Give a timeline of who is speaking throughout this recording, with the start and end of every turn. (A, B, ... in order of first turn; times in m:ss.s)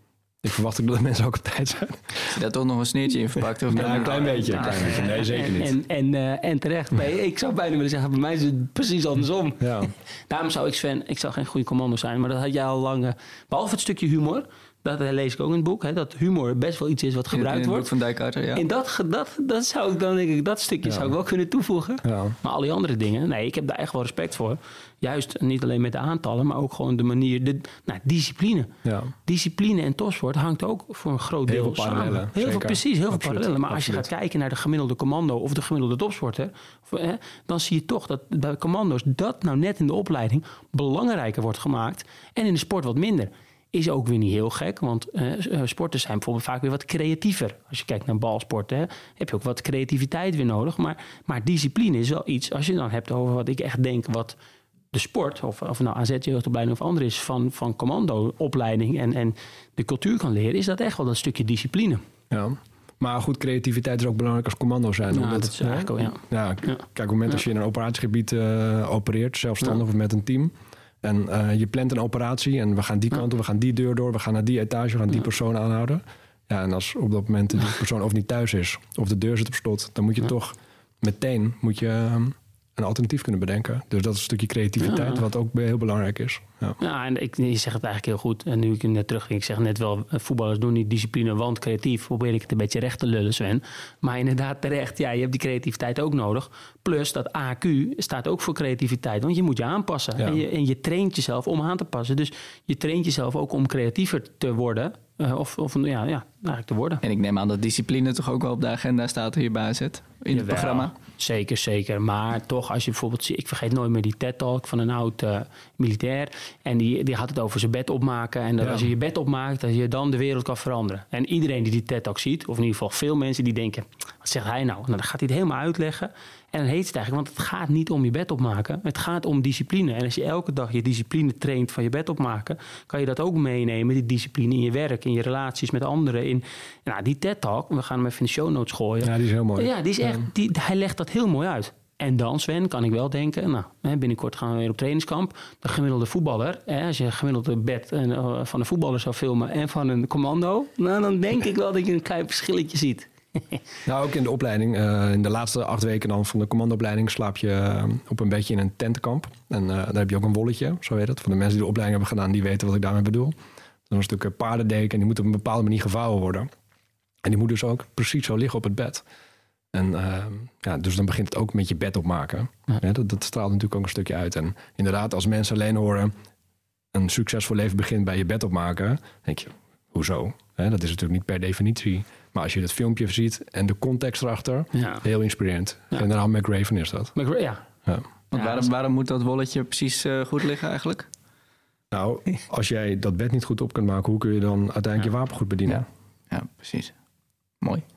0:00.4-0:02.4 A
0:02.3-0:05.1 B
0:03.7-0:05.8 A
0:03.8-0:09.8 C
0:09.6-0:09.9 A
0:10.3-0:17.9 C
0:17.3-0:18.6 B
0:18.6-0:28.7 C
0:22.0-0:22.4 A
0:28.8-0:29.1 A
0:29.3-0:54.4 C
0:31.5-0:34.1 A
0:54.9-1:02.0 C
1:02.3-1:26.8 A
1:05.1-1:06.8 C
1:24.8-1:25.2 C
1:26.8-1:47.0 C
1:47.0-1:50.9 B
1:50.3-2:33.6 C
1:58.6-1:58.9 A
2:19.0-2:20.2 A
2:33.9-2:43.4 A
2:43.9-2:46.5 A
2:47.2-2:49.0 A
2:49.7-2:56.1 A
2:56.9-3:07.1 A
3:04.8-3:05.0 C
3:07.2-3:07.6 C
3:08.3-3:11.1 B
3:08.3-3:08.7 C
3:11.9-3:15.9 A
3:15.7-3:16.9 B